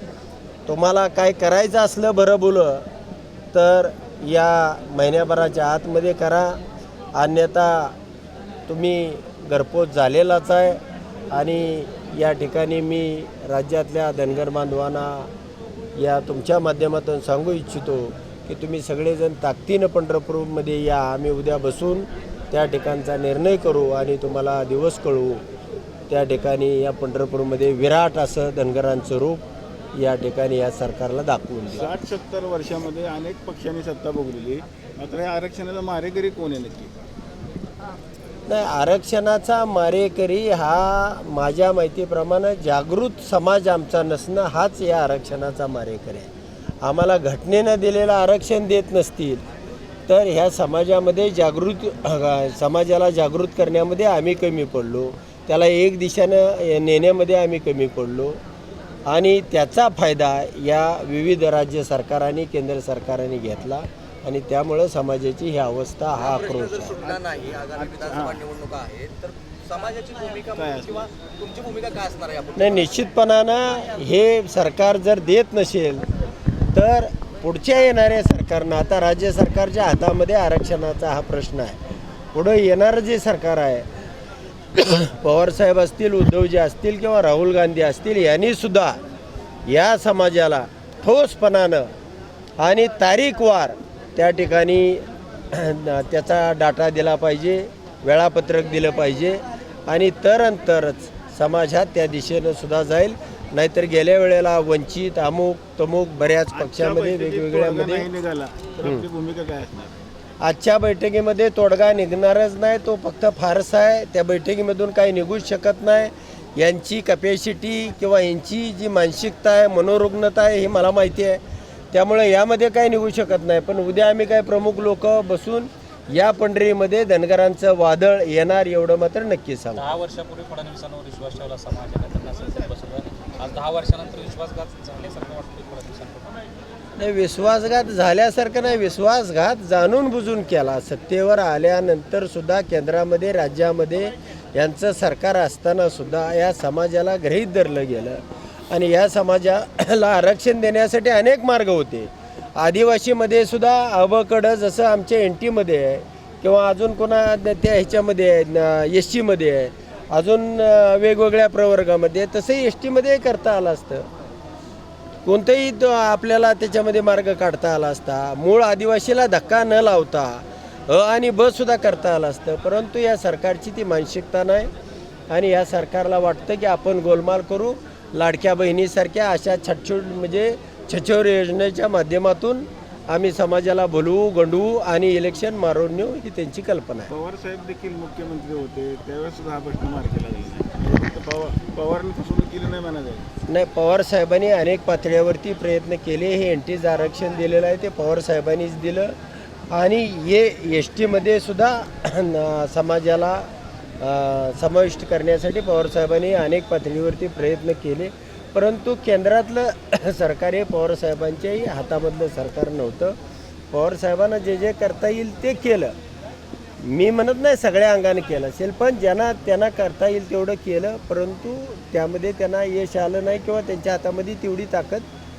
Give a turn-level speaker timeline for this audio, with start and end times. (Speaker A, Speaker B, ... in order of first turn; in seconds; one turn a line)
Speaker A: 0.7-2.9
Speaker A: 3.5-6.6
Speaker A: 7.1-8.0
Speaker A: 8.7-15.3
Speaker A: 15.9-25.4
Speaker A: 26.1-31.9
Speaker B: 31.7-36.9
Speaker A: 38.5-46.3
Speaker A: 46.8-49.4
Speaker A: 50.1-58.4
Speaker A: 59.1-67.2
Speaker C: 66.5-70.6
Speaker B: 68.0-68.4
Speaker B: 70.5-71.1
Speaker C: 71.1-72.7
Speaker A: 72.5-76.1
Speaker A: 76.7-81.8
Speaker A: 82.3-83.9
Speaker A: 84.7-89.0
Speaker A: 89.7-91.9
Speaker A: 92.6-108.0
Speaker B: 106.5-110.0
Speaker A: 110.4-129.9
Speaker D: 129.7-136.4
Speaker A: 137.0-164.1
Speaker A: 165.2-174.7
Speaker A: 175.3-187.1
Speaker B: 187.1-193.3
Speaker A: 193.5-199.2
Speaker A: 199.7-213.2
Speaker A: 213.7-215.9
Speaker A: 216.8-225.1